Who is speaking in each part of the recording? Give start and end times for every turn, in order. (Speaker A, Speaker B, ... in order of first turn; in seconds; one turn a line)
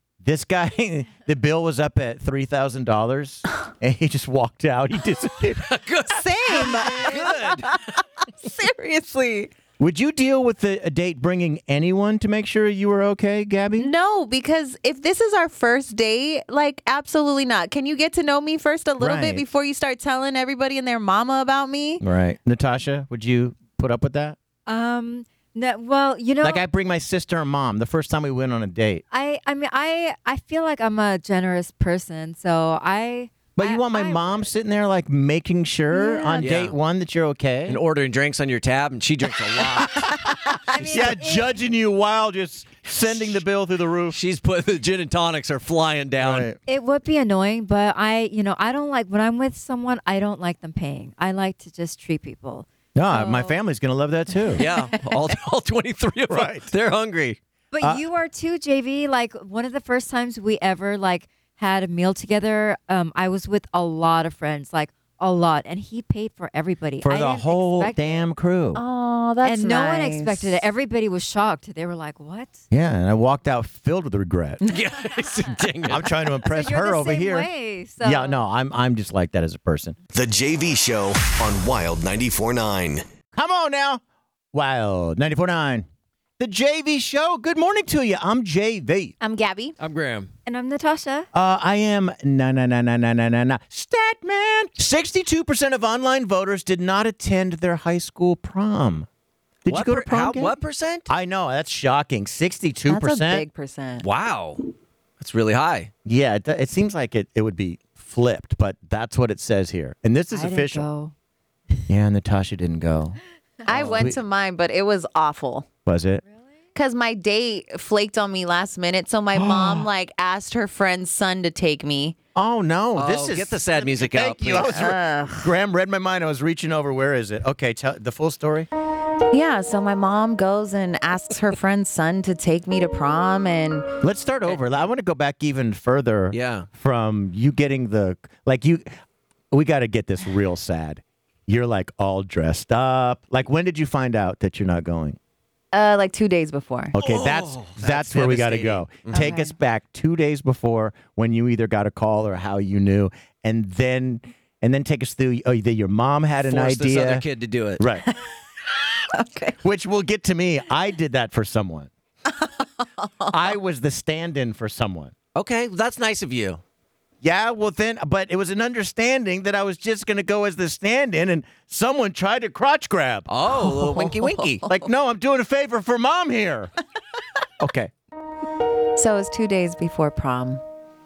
Speaker A: 0.2-5.7
Speaker B: 5.7-7.7
Speaker C: 6.1-9.5
Speaker A: 6.5-7.5
Speaker A: 9.8-13.9
Speaker C: 13.8-22.0
Speaker A: 19.0-19.4
Speaker A: 22.0-24.4
Speaker D: 24.7-26.6
Speaker A: 26.4-29.0
Speaker D: 29.1-34.5
Speaker A: 33.5-37.8
Speaker C: 35.9-36.5
Speaker B: 36.4-36.7
Speaker B: 37.7-40.1
Speaker D: 40.7-41.5
Speaker A: 40.7-44.2
Speaker B: 44.1-46.5
Speaker A: 46.2-46.6
Speaker D: 46.7-53.5
Speaker A: 52.9-54.6
Speaker B: 54.6-57.4
Speaker C: 54.6-55.0
Speaker A: 56.3-56.7
Speaker D: 57.7-68.2
Speaker A: 67.0-68.8
Speaker C: 68.7-70.6
Speaker D: 69.4-72.6
Speaker A: 72.7-74.6
Speaker B: 74.7-76.2
Speaker A: 75.9-77.5
Speaker D: 76.5-78.4
Speaker A: 78.0-80.0
Speaker E: 80.1-83.0
Speaker A: 83.3-84.0
Speaker A: 84.5-85.8
Speaker A: 86.4-89.1
Speaker C: 89.2-89.8
Speaker B: 89.8-90.3
Speaker D: 90.5-91.3
Speaker A: 91.3-99.1
Speaker A: 99.6-100.5
Speaker B: 99.7-101.1
Speaker A: 101.1-103.5
Speaker C: 102.9-104.0
Speaker B: 104.0-104.6
Speaker B: 105.2-105.9
Speaker A: 106.0-110.9
Speaker D: 110.3-111.1
Speaker A: 111.9-113.2
Speaker C: 113.7-115.7
Speaker B: 113.7-114.1
Speaker A: 113.8-114.2
Speaker A: 115.8-116.2
Speaker C: 116.7-122.2
Speaker A: 119.3-119.9
Speaker A: 122.3-128.7
Speaker B: 123.0-124.9
Speaker C: 124.6-125.5
Speaker C: 129.3-133.9
Speaker A: 134.0-138.9
Speaker B: 136.3-136.7
Speaker A: 139.5-145.2
Speaker C: 145.7-146.9
Speaker A: 146.9-157.2
Speaker B: 147.0-149.3
Speaker C: 149.1-149.5
Speaker B: 156.5-157.8
Speaker A: 157.8-158.1
Speaker C: 159.1-159.6
Speaker A: 159.6-161.9
Speaker C: 162.3-163.5
Speaker A: 163.3-165.1
Speaker B: 165.3-166.6
Speaker A: 167.2-173.3
Speaker B: 173.3-174.6
Speaker C: 173.5-174.8
Speaker A: 174.6-176.7
Speaker A: 177.6-177.9
Speaker C: 178.9-180.6